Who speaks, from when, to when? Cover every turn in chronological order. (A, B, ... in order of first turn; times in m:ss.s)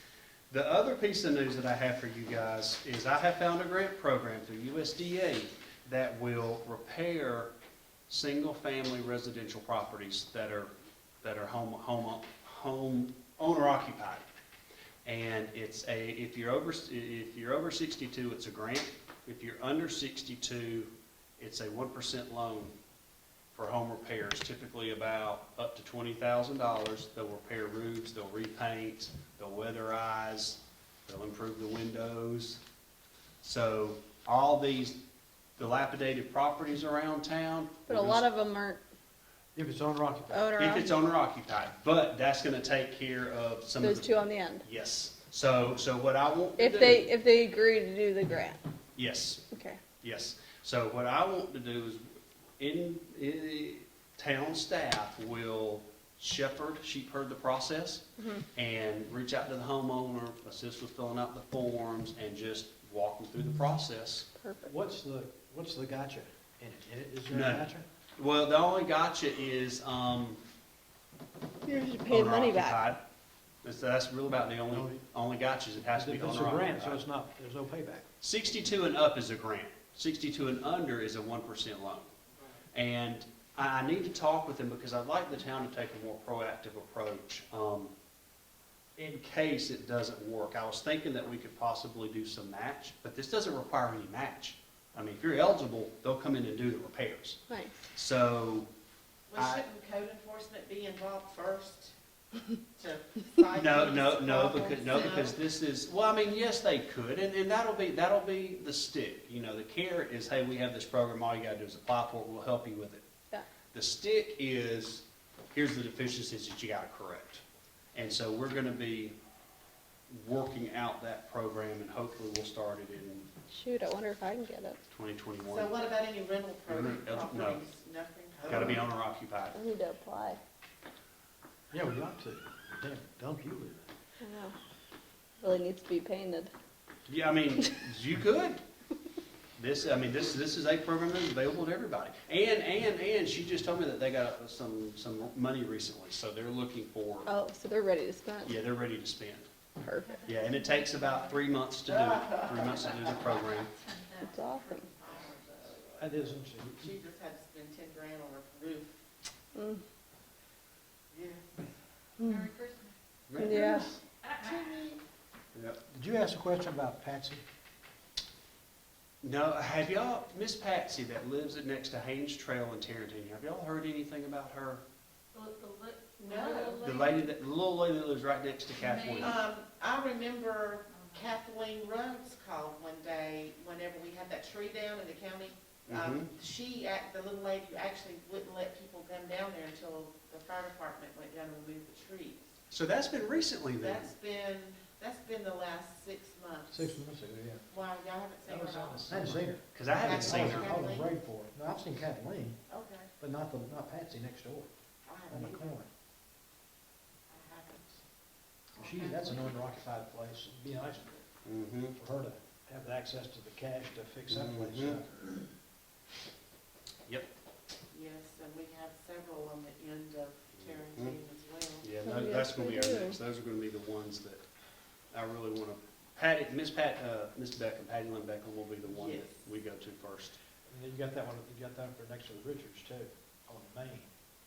0:00.5-0:07.5 A
0:08.1-0:10.7 A
0:11.2-0:14.2 A
0:15.0-0:22.7 A
0:23.5-0:32.6 A
0:33.4-0:35.0 A
0:35.6-0:38.2 A
0:37.9-0:38.8 B
0:39.5-0:40.5 C
0:40.3-0:41.0 B
0:40.6-0:47.1 A
0:43.8-0:44.6 B
0:46.6-0:48.6 B
0:49.0-0:49.4 A
0:49.5-0:49.8 B
0:50.0-0:52.0 A
0:52.6-1:04.3 A
1:04.3-1:04.7 B
1:04.6-1:07.9 C
1:07.3-1:10.4 A
1:11.6-1:12.8 B
1:12.1-1:13.0 A
1:13.6-1:17.0 A
1:14.7-1:15.0 C
1:15.9-1:18.0 C
1:18.2-1:22.1 A
1:22.7-1:27.9 A
1:29.0-1:37.4 A
1:37.5-1:37.8 B
1:37.9-1:38.7 A
1:39.3-1:41.9 D
1:39.3-1:39.6 A
1:42.7-1:45.4 D
1:43.6-1:53.0 A
1:53.7-1:57.4 A
1:57.9-1:59.2 A
2:00.1-2:03.3 A
2:03.5-2:04.8 B
2:04.9-2:05.7 A
2:05.5-2:08.9 D
2:06.7-2:07.6 A
2:08.4-2:09.6 A
2:09.5-2:10.4 B
2:11.7-2:13.9 C
2:14.2-2:14.6 B
2:15.4-2:16.5 B
2:17.1-2:18.6 A
2:19.6-2:27.3 A
2:27.2-2:28.5 B
2:28.4-2:29.5 A
2:29.8-2:30.2 B
2:30.0-2:31.5 E
2:30.2-2:33.7 A
2:32.0-2:32.9 D
2:32.7-2:35.7 E
2:34.3-2:34.8 B
2:35.0-2:39.0 D
2:36.0-2:36.9 C
2:39.5-2:39.8 B
2:41.1-2:41.7 D
2:42.2-2:42.4 B
2:42.2-2:42.9 E
2:43.3-2:43.9 A
2:43.4-2:43.9 B
2:43.5-2:45.0 D
2:43.8-2:44.8 E
2:45.5-2:45.8 A
2:45.9-2:47.4 C
2:49.2-2:54.8 A
2:55.3-2:57.2 E
2:56.2-2:56.8 D
2:56.8-2:59.4 A
2:58.7-2:59.3 E
2:59.2-3:12.5 D
3:00.9-3:01.2 E
3:05.9-3:06.3 A
3:12.7-3:14.1 A
3:13.8-3:17.0 D
3:16.7-3:17.6 C
3:17.7-3:19.4 D
3:18.4-3:22.6 C
3:19.0-3:20.8 A
3:20.0-3:21.1 D
3:22.7-3:23.1 D
3:23.2-3:24.7 C
3:25.0-3:25.7 D
3:25.3-3:25.9 C
3:27.3-3:28.0 D
3:28.7-3:29.6 D
3:28.7-3:31.2 C
3:31.4-3:31.9 A
3:31.9-3:35.3 C
3:34.3-3:35.0 A
3:37.9-3:41.9 D
3:40.6-3:41.2 A
3:41.8-3:44.4 A
3:42.0-3:43.2 B
3:45.1-3:50.4 A
3:48.9-3:49.3 D
3:50.7-3:54.1 C